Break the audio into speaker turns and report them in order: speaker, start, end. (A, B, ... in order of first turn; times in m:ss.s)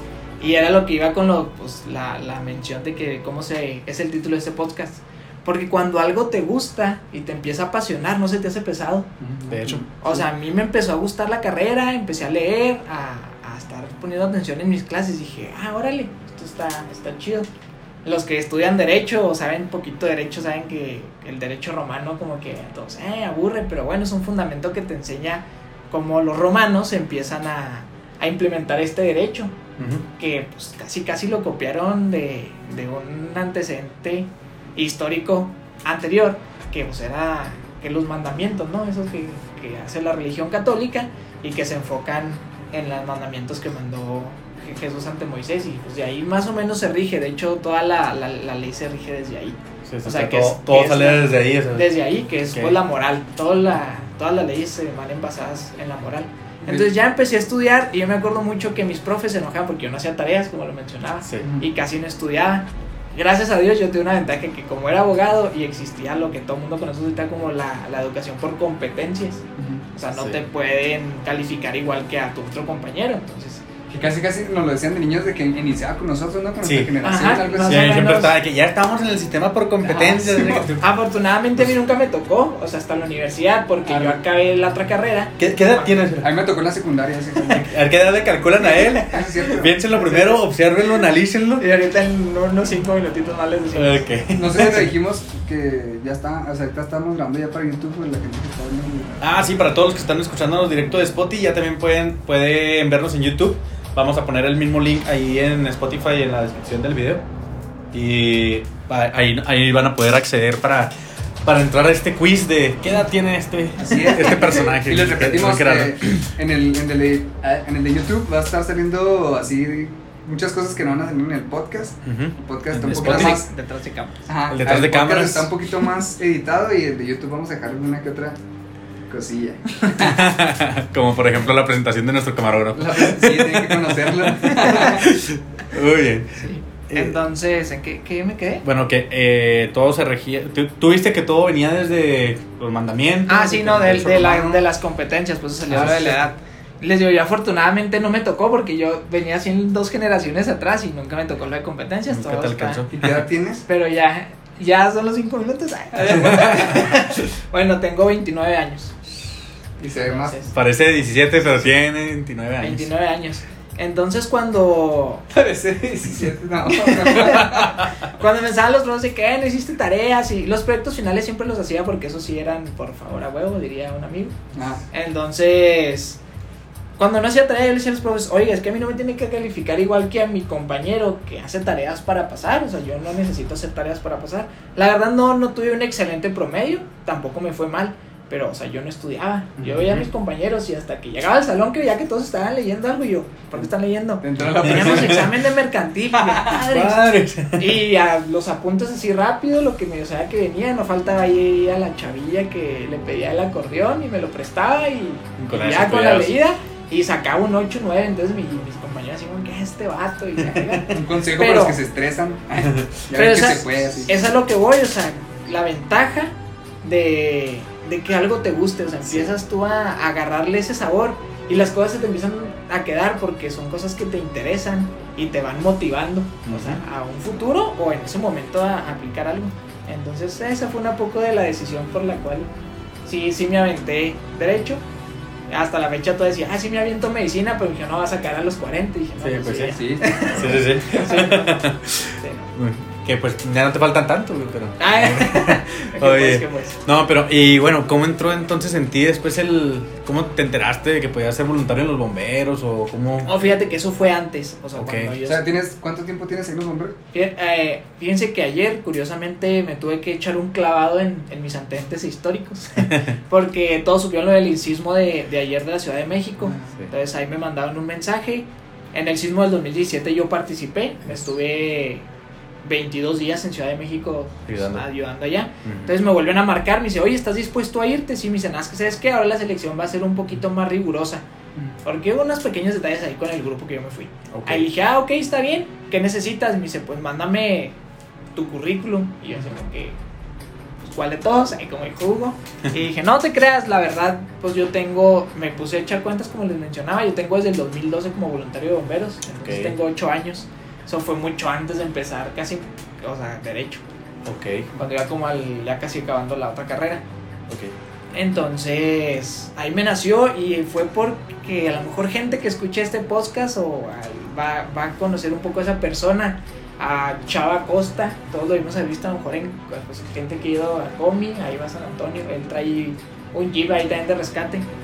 0:00.4-0:09.1 A
0:09.2-0:10.2 B
0:09.5-0:09.9 C
0:10.0-0:17.5 A
0:18.0-0:29.6 A
0:29.8-0:30.0 C
0:30.2-1:09.4 A
0:49.8-0:51.9 C
0:52.5-0:52.8 C
1:01.3-1:01.5 C
1:09.6-1:09.8 B
1:10.0-1:13.6 A
1:13.9-1:18.0 B
1:16.6-1:17.0 C
1:17.0-1:18.4 A
1:17.6-1:20.8 C
1:19.8-1:26.1 A
1:20.1-1:20.8 B
1:23.9-1:24.2 C
1:25.4-1:26.4 C
1:26.2-1:27.7 B
1:27.4-1:31.7 C
1:28.7-1:30.4 A
1:29.0-1:29.8 B
1:31.6-1:34.1 A
1:33.7-1:34.9 C
1:34.4-1:39.2 B
1:39.2-1:47.2 C
1:47.9-1:50.9 C
1:51.4-1:56.3 C
1:53.8-2:03.5 B
2:02.0-2:03.4 C
2:02.9-2:04.3 A
2:04.3-2:08.4 B
2:04.5-2:05.5 C
2:09.1-2:10.2 B
2:10.0-2:17.2 C
2:12.7-2:15.1 B
2:16.4-2:18.6 A
2:18.6-2:24.6 C
2:23.3-2:32.8 A
2:25.7-2:26.2 C
2:32.1-2:33.2 C
2:32.9-2:33.6 B
2:33.7-2:39.0 A
2:36.1-2:36.9 B
2:36.4-2:36.9 C
2:39.8-2:40.4 B
2:40.0-2:40.5 A
2:40.5-2:42.9 C
2:42.6-2:45.3 A
2:45.3-2:47.8 B
2:46.7-2:54.4 A
2:54.5-2:54.8 B
2:54.9-2:56.2 A
2:57.0-3:17.0 A
3:09.7-3:10.1 C
3:14.2-3:15.3 B
3:14.4-3:15.3 C
3:16.1-3:16.6 B
3:16.5-3:17.8 C
3:17.6-3:31.8 A
3:25.4-3:26.3 C
3:30.4-3:30.8 C
3:30.9-3:34.1 B
3:32.6-3:32.9 C
3:33.1-3:52.5 A
3:46.5-3:46.8 C
3:53.1-3:54.8 A
3:55.5-4:02.5 A
3:59.2-4:13.3 C
3:59.7-4:00.3 B
4:04.8-4:06.8 A
4:13.2-4:15.5 A
4:14.8-4:15.1 C
4:15.2-4:17.0 B
4:17.1-4:32.0 A
4:22.8-4:23.1 C
4:32.6-4:41.2 A
4:34.5-4:34.8 C
4:35.6-4:35.9 C
4:41.8-4:47.8 A
4:44.3-4:44.7 C
4:48.4-4:50.0 A
4:50.8-5:03.8 A
4:59.4-4:59.7 C
5:04.2-5:04.7 C
5:04.7-5:07.0 A
5:07.5-5:07.7 C
5:08.1-5:24.7 A